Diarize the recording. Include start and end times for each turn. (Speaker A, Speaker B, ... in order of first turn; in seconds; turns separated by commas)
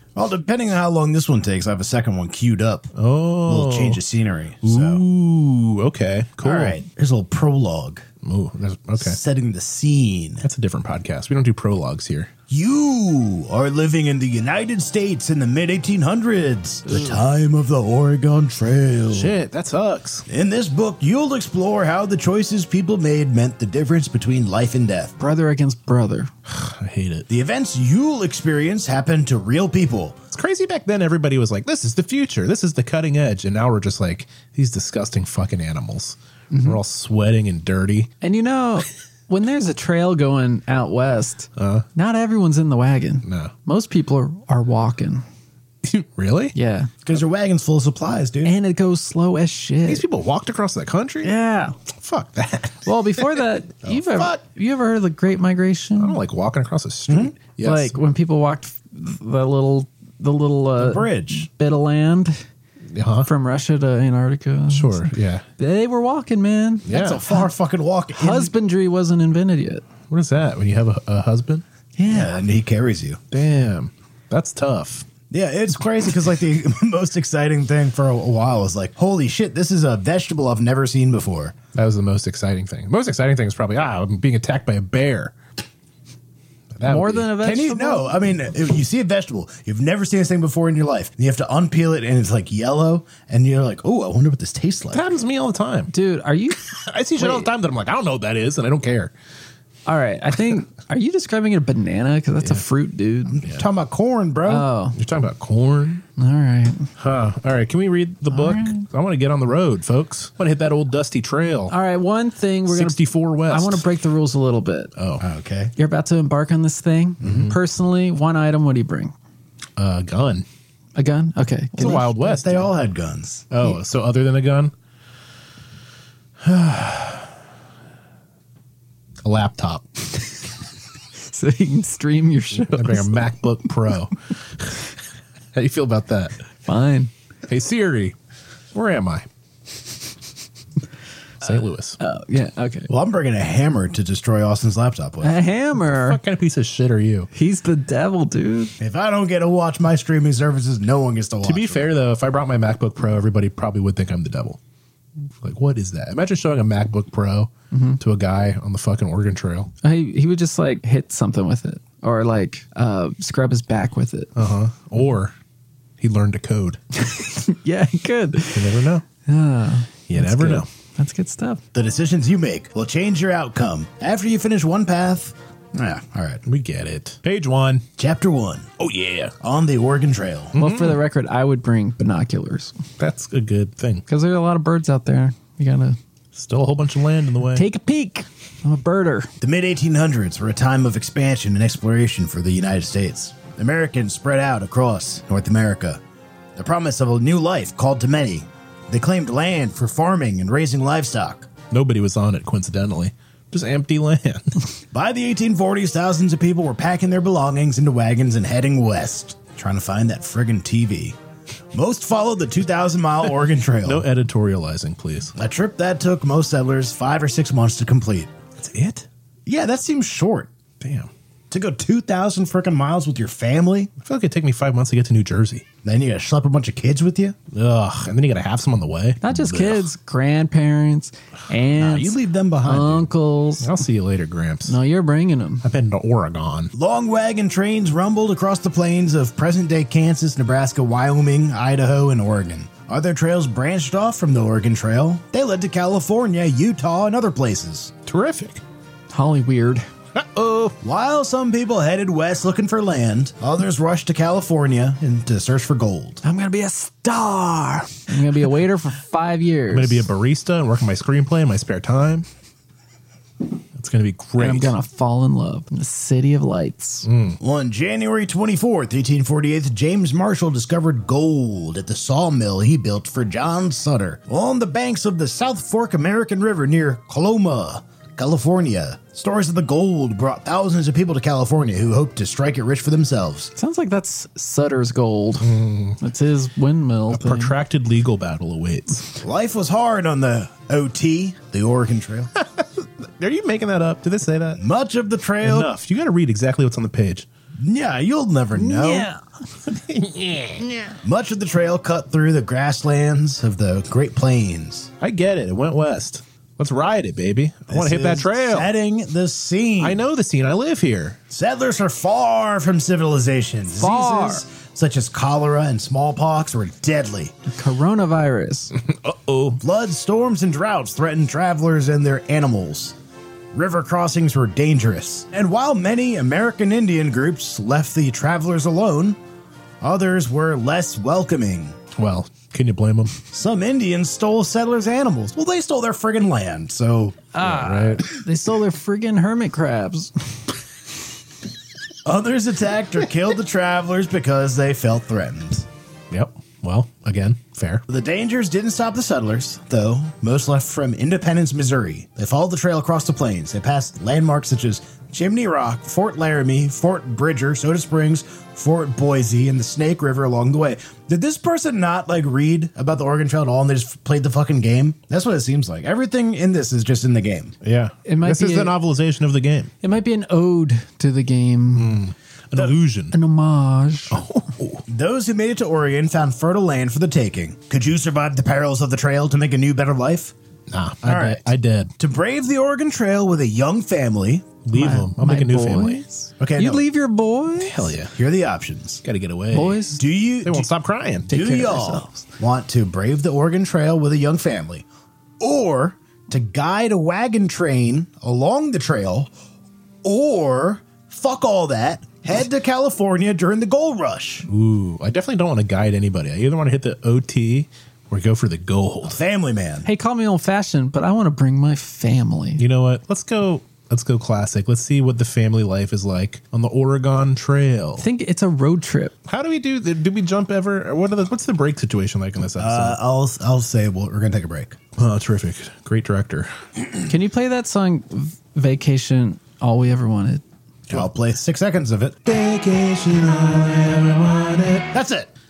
Speaker A: 0.1-2.9, Speaker B: 3.0-4.0, Speaker A: 3.5-5.0, Speaker B: 4.6-6.8, Speaker A: 6.4-8.1, Speaker B: 8.2-9.2, Speaker A: 9.0-10.5, Speaker B: 10.4-12.3, Speaker A: 12.5-19.3, Speaker B: 19.1-20.3, Speaker A: 20.3-25.1, Speaker C: 25.2-26.3, Speaker B: 26.5-27.3, Speaker A: 27.3-30.2, Speaker B: 30.3-38.1, Speaker C: 36.5-36.8, Speaker C: 38.2-45.2, Speaker B: 41.6-41.9, Speaker B: 43.2-43.5, Speaker B: 45.8-46.5, Speaker C: 46.5-46.9, Speaker A: 47.0-48.5, Speaker C: 48.4-50.0, Speaker B: 49.9-51.3, Speaker C: 51.2-51.8, Speaker B: 51.9-54.4, Speaker C: 52.9-56.2, Speaker B: 56.0-58.0, Speaker A: 57.1-57.3, Speaker C: 57.6-62.4, Speaker A: 60.8-61.5, Speaker B: 62.9-63.3, Speaker C: 63.2-67.5, Speaker B: 64.7-65.5, Speaker B: 66.9-67.2, Speaker A: 66.9-68.5, Speaker C: 68.2-69.9, Speaker B: 70.1-71.6, Speaker C: 72.0-72.4, Speaker A: 72.1-73.2, Speaker B: 73.3-75.1, Speaker A: 75.3-81.6, Speaker B: 81.7-85.3, Speaker B: 86.7-87.3, Speaker C: 86.8-88.2, Speaker A: 87.4-95.1, Speaker B: 94.9-95.9, Speaker C: 95.9-97.5, Speaker B: 96.7-99.1, Speaker C: 99.9-103.5, Speaker A: 103.3-104.7, Speaker C: 104.5-105.0, Speaker B: 105.0-106.0, Speaker C: 106.2-106.9, Speaker B: 107.0-111.7, Speaker C: 108.3-108.9, Speaker C: 111.7-114.9, Speaker B: 112.7-113.8, Speaker B: 115.0-115.2, Speaker A: 115.2-115.7, Speaker C: 115.8-119.1, Speaker A: 117.2-117.5, Speaker B: 117.2-117.6, Speaker B: 119.8-120.5, Speaker C: 121.0-122.2, Speaker B: 121.8-122.7, Speaker A: 121.8-123.5, Speaker B: 123.5-124.7, Speaker B: 126.4-127.3, Speaker B: 129.2-130.1, Speaker C: 131.2-133.2, Speaker B: 132.7-134.8, Speaker B: 135.5-136.4, Speaker C: 136.7-137.1, Speaker B: 137.5-138.2, Speaker B: 138.7-139.3, Speaker B: 141.4-142.0, Speaker C: 142.0-142.9, Speaker A: 142.9-145.3, Speaker C: 145.2-146.2, Speaker B: 145.9-147.3, Speaker C: 147.3-148.7, Speaker A: 148.8-151.9, Speaker B: 151.4-154.6, Speaker B: 155.4-159.7, Speaker C: 157.7-158.0, Speaker C: 159.8-164.3, Speaker B: 164.4-165.3, Speaker B: 166.0-166.8, Speaker C: 166.9-171.6, Speaker B: 168.5-169.1, Speaker B: 170.1-170.7, Speaker A: 171.7-176.4, Speaker B: 176.5-177.8, Speaker A: 178.0-178.7, Speaker B: 178.8-179.3, Speaker A: 179.4-180.6, Speaker B: 180.6-181.0, Speaker C: 180.6-182.8, Speaker B: 183.0-184.0, Speaker C: 184.1-186.0, Speaker B: 186.3-187.7, Speaker C: 187.5-189.3, Speaker A: 189.4-196.0, Speaker A: 196.6-201.5, Speaker B: 201.7-204.6, Speaker A: 204.9-211.2, Speaker A: 211.7-214.1, Speaker B: 213.8-215.3, Speaker A: 215.4-218.3, Speaker B: 218.6-219.1, Speaker A: 219.5-220.5, Speaker B: 220.8-221.1, Speaker A: 221.5-223.9, Speaker B: 224.0-225.7, Speaker A: 225.8-227.4, Speaker B: 227.5-229.9, Speaker C: 229.2-233.7, Speaker A: 231.8-233.1, Speaker B: 233.6-234.8, Speaker C: 234.7-235.7, Speaker B: 235.6-236.7, Speaker A: 236.7-247.9, Speaker B: 248.1-248.6, Speaker C: 249.1-249.9, Speaker B: 250.2-250.8, Speaker A: 250.8-256.2, Speaker C: 256.2-260.1, Speaker B: 259.7-262.3, Speaker B: 263.8-264.7, Speaker C: 264.4-267.1, Speaker B: 267.1-267.4, Speaker A: 267.4-283.5, Speaker C: 283.6-287.5, Speaker B: 285.4-286.0, Speaker B: 287.1-289.1, Speaker A: 289.2-292.3, Speaker B: 292.4-294.6, Speaker A: 294.6-295.7, Speaker B: 295.4-297.3, Speaker A: 297.6-299.1, Speaker C: 298.5-299.2, Speaker B: 299.7-301.0, Speaker A: 301.0-304.9, Speaker B: 305.0-308.7, Speaker A: 307.7-310.0, Speaker B: 309.8-311.2, Speaker A: 311.3-317.3, Speaker C: 313.8-314.4, Speaker C: 317.5-318.7, Speaker B: 318.8-319.6, Speaker A: 319.6-322.9, Speaker A: 323.5-329.2, Speaker A: 329.8-331.8, Speaker B: 331.9-333.2, Speaker A: 333.3-337.3, Speaker C: 337.3-340.4, Speaker B: 337.4-338.1, Speaker A: 342.1-345.7, Speaker B: 346.1-347.8, Speaker A: 347.9-367.5, Speaker B: 367.6-369.7, Speaker C: 368.1-368.8, Speaker C: 369.8-372.0, Speaker B: 371.8-373.1, Speaker C: 373.1-374.2, Speaker B: 374.1-374.8, Speaker A: 374.9-380.3, Speaker B: 380.7-381.9, Speaker A: 381.0-381.4, Speaker A: 382.0-384.5, Speaker B: 384.6-386.0, Speaker C: 384.7-387.9, Speaker A: 386.4-386.8, Speaker B: 387.6-388.1, Speaker A: 388.1-389.0, Speaker B: 389.0-389.8, Speaker C: 389.5-390.0, Speaker A: 389.9-390.7, Speaker B: 390.4-391.3, Speaker A: 391.3-394.9, Speaker C: 391.3-392.2, Speaker A: 395.4-399.3, Speaker A: 400.0-404.5, Speaker B: 404.5-409.2, Speaker A: 409.0-409.9, Speaker C: 409.9-412.6, Speaker B: 412.6-418.1, Speaker C: 418.0-419.1, Speaker B: 419.3-423.0, Speaker A: 422.6-424.8, Speaker B: 425.0-426.5, Speaker C: 427.1-430.4, Speaker A: 430.9-432.3, Speaker B: 432.3-434.9, Speaker A: 434.9-435.3